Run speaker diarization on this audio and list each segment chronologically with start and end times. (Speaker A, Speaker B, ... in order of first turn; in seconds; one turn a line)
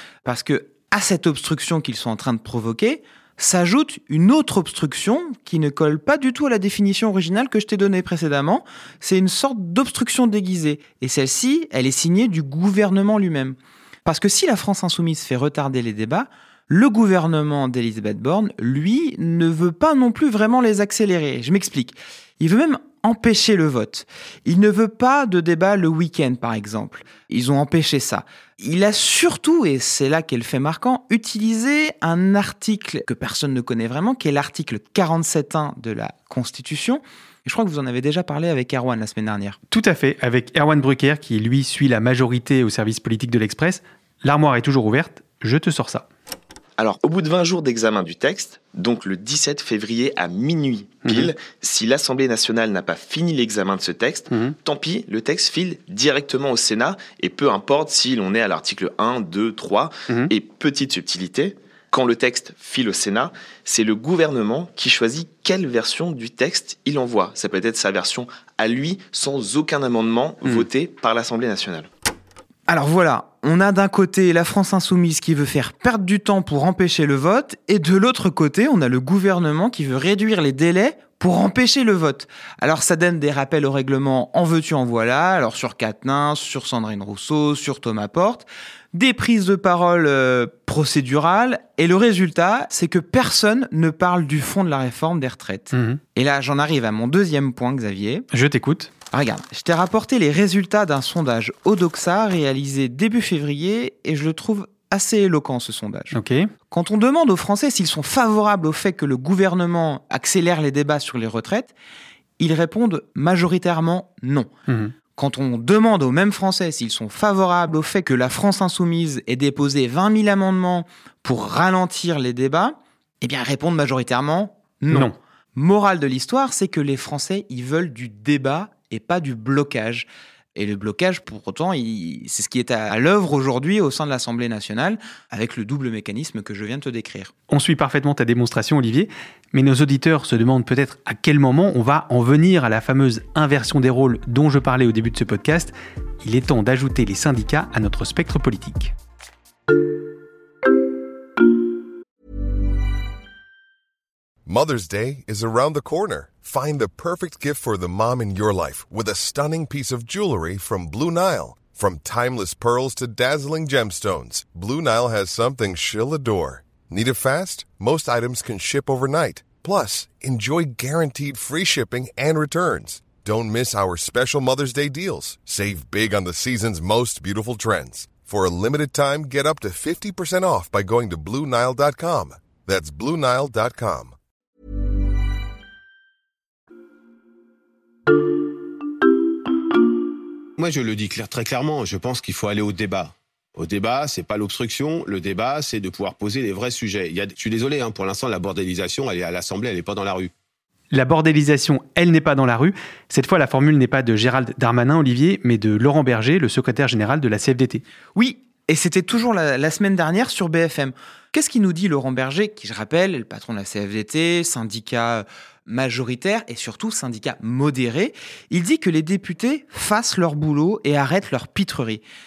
Speaker A: 0.2-39.6
Speaker B: 39.7-46.0
Speaker C: 46.8-71.9
Speaker B: 51.0-51.3
Speaker A: 72.7-98.2
Speaker B: 95.7-96.0
Speaker B: 98.3-98.9
Speaker A: 99.1-106.2
Speaker B: 106.1-106.5
Speaker A: 106.7-111.7
Speaker A: 112.4-114.5
Speaker B: 114.7-114.9
Speaker A: 115.1-137.3
Speaker B: 137.5-148.9
Speaker D: 154.4-184.2
Speaker E: 190.6-200.3
Speaker B: 200.9-207.8
Speaker A: 208.1-222.0